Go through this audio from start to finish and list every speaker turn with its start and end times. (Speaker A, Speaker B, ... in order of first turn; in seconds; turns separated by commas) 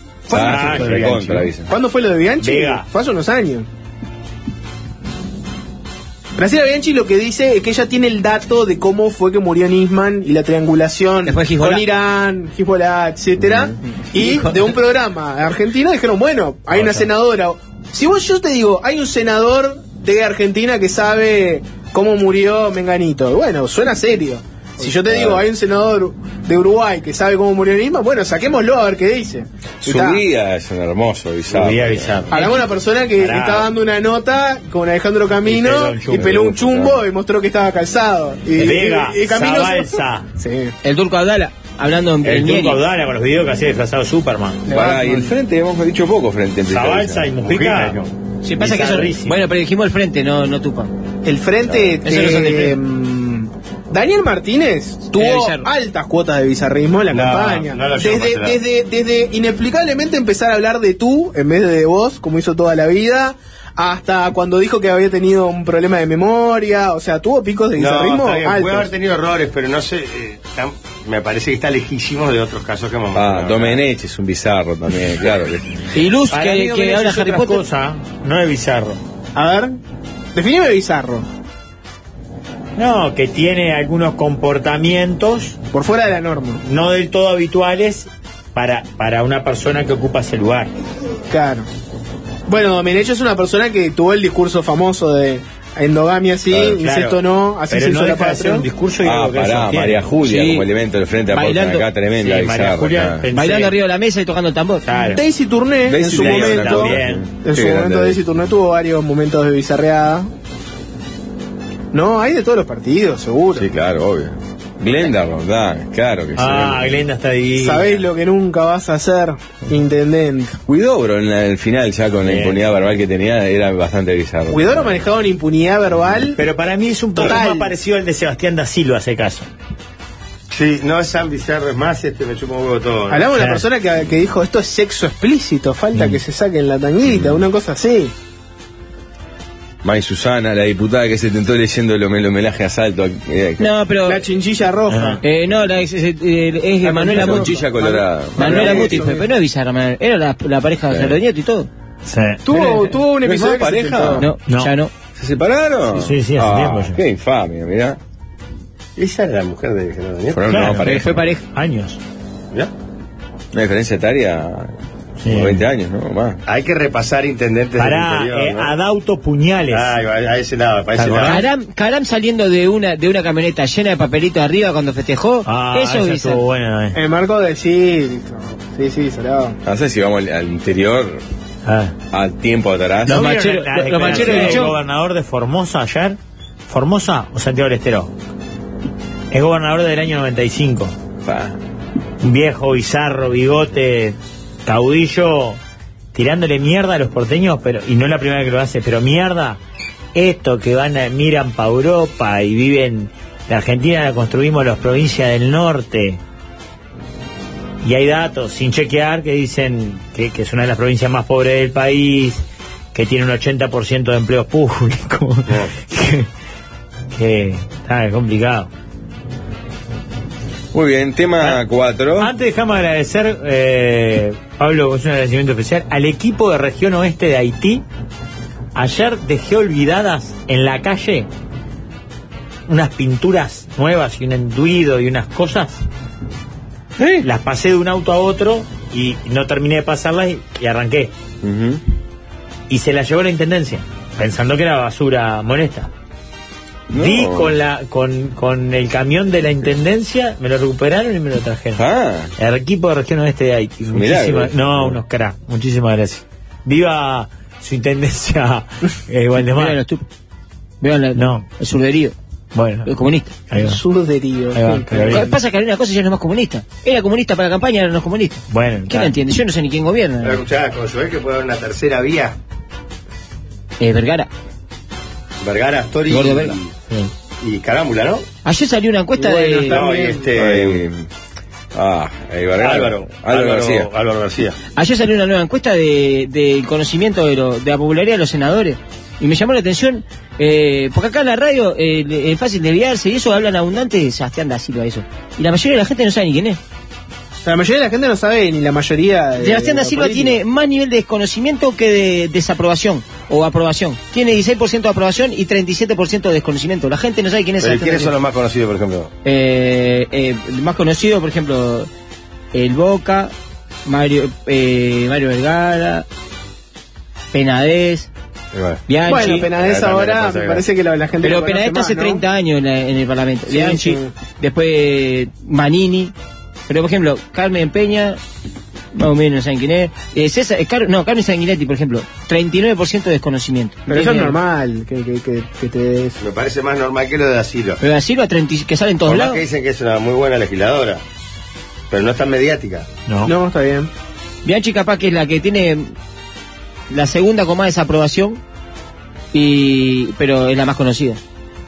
Speaker A: 0.3-1.7, Speaker B: 0.3-1.3, Speaker C: 0.4-1.5, Speaker D: 1.7-3.7, Speaker B: 2.4-2.9, Speaker D: 6.4-30.2, Speaker E: 11.3-11.9, Speaker A: 13.4-13.7, Speaker E: 14.1-14.8, Speaker A: 25.1-25.5, Speaker A: 29.8-32.3, Speaker B: 31.5-32.6, Speaker D: 32.3-40.7, Speaker B: 33.2-33.7, Speaker B: 35.4-36.3, Speaker A: 36.1-37.0, Speaker B: 38.5-40.3, Speaker E: 40.8-42.8, Speaker B: 42.2-44.6, Speaker D: 44.7-45.3, Speaker A: 44.7-47.3, Speaker B: 46.7-48.0, Speaker C: 47.4-48.1, Speaker E: 48.4-50.9, Speaker B: 48.6-49.4, Speaker D: 51.2-68.9, Speaker A: 51.7-52.0, Speaker E: 52.0-52.8, Speaker E: 55.1-55.7, Speaker C: 57.1-58.6, Speaker C: 67.8-73.8, Speaker A: 73.1-75.9, Speaker E: 75.9-77.6, Speaker B: 76.3-79.0, Speaker D: 79.3-79.8, Speaker D: 80.3-81.3, Speaker B: 82.8-85.6, Speaker D: 85.7-86.6, Speaker B: 86.6-90.7, Speaker D: 91.3-91.7, Speaker D: 92.5-98.7, Speaker B: 96.7-100.1, Speaker A: 99.0-103.3, Speaker E: 100.2-100.7, Speaker E: 101.3-101.9, Speaker B: 102.2-103.7, Speaker E: 103.3-104.8, Speaker B: 104.9-105.2, Speaker D: 105.1-110.3, Speaker A: 105.9-108.2, Speaker B: 106.1-107.2, Speaker D: 111.9-113.7, Speaker A: 113.5-117.0, Speaker B: 116.4-118.0, Speaker D: 117.6-120.6, Speaker A: 120.7-125.0, Speaker B: 122.2-122.6, Speaker D: 124.5-126.4, Speaker B: 126.4-129.5, Speaker D: 127.2-127.7, Speaker C: 130.5-133.3, Speaker D: 133.1-138.1, Speaker B: 133.3-133.7, Speaker A: 137.1-137.4, Speaker A: 139.8-143.7, Speaker E: 143.6-144.2, Speaker D: 144.1-145.2, Speaker B: 144.9-145.2, Speaker E: 145.2-147.6, Speaker A: 146.8-149.1, Speaker D: 147.0-147.9, Speaker E: 148.4-151.7, Speaker C: 148.4-148.9, Speaker D: 148.5-149.1, Speaker A: 150.9-151.2, Speaker B: 152.1-152.4, Speaker D: 152.5-154.3, Speaker A: 153.2-154.3, Speaker E: 154.2-154.9, Speaker B: 154.5-154.7, Speaker A: 155.2-158.0, Speaker B: 155.9-157.0, Speaker C: 159.0-160.5, Speaker A: 160.3-161.3, Speaker B: 160.5-162.0, Speaker E: 160.8-161.4, Speaker A: 163.5-164.7, Speaker B: 165.2-165.6, Speaker A: 165.2-166.4, Speaker C: 166.5-168.7, Speaker B: 167.8-169.9, Speaker C: 169.7-171.5, Speaker B: 170.9-171.5, Speaker E: 171.2-176.4, Speaker B: 175.4-177.0, Speaker D: 176.9-179.6, Speaker A: 179.7-181.2, Speaker B: 181.7-181.9, Speaker A: 182.1-183.3, Speaker E: 183.1-184.8, Speaker B: 183.1-188.1, Speaker A: 184.0-184.7, Speaker B: 189.3-190.9, Speaker A: 191.2-191.6, Speaker B: 192.2-195.6, Speaker B: 196.1-199.6, Speaker B: 200.2-206.2, Speaker B: 207.8-212.4, Speaker B: 212.9-216.3, Speaker C: 215.5-215.7, Speaker B: 217.1-218.7, Speaker A: 220.7-222.3, Speaker B: 222.2-227.8, Speaker B: 228.8-231.3, Speaker B: 232.7-235.8, Speaker A: 237.0-237.3, Speaker B: 237.2-241.1, Speaker A: 241.4-241.8, Speaker B: 242.7-245.9, Speaker A: 246.9-247.6, Speaker B: 246.9-251.8, Speaker A: 251.8-252.3, Speaker B: 252.4-259.8, Speaker A: 253.9-255.0, Speaker E: 259.5-260.0, Speaker E: 260.8-262.1, Speaker B: 261.1-261.5, Speaker B: 262.6-262.9, Speaker E: 262.9-263.4, Speaker B: 263.5-263.8, Speaker D: 263.5-265.4, Speaker B: 264.5-265.3, Speaker E: 265.1-270.4, Speaker B: 268.5-269.1, Speaker C: 270.2-272.4, Speaker E: 273.8-274.3, Speaker C: 275.4-276.7, Speaker E: 276.1-276.6, Speaker C: 277.4-278.3, Speaker E: 278.4-279.8, Speaker D: 279.2-280.3, Speaker C: 279.6-280.8, Speaker A: 280.3-281.1, Speaker A: 281.7-283.9, Speaker C: 282.6-284.6, Speaker E: 284.8-296.6, Speaker D: 297.4-300.4, Speaker E: 299.4-308.1, Speaker C: 307.6-309.1, Speaker E: 309.2-311.9, Speaker E: 312.5-313.3, Speaker E: 313.9-316.1, Speaker E: 317.3-318.1, Speaker C: 318.5-320.7, Speaker E: 318.9-319.5, Speaker D: 319.0-322.3, Speaker E: 321.2-326.1, Speaker D: 323.5-324.1, Speaker E: 326.7-328.2, Speaker E: 328.9-334.4, Speaker D: 333.9-336.2, Speaker C: 336.2-337.8, Speaker E: 337.8-339.4, Speaker C: 339.1-341.0, Speaker C: 341.9-342.9, Speaker B: 343.1-343.3, Speaker D: 343.3-343.9, Speaker E: 344.4-345.9, Speaker E: 346.9-348.4, Speaker E: 349.3-351.2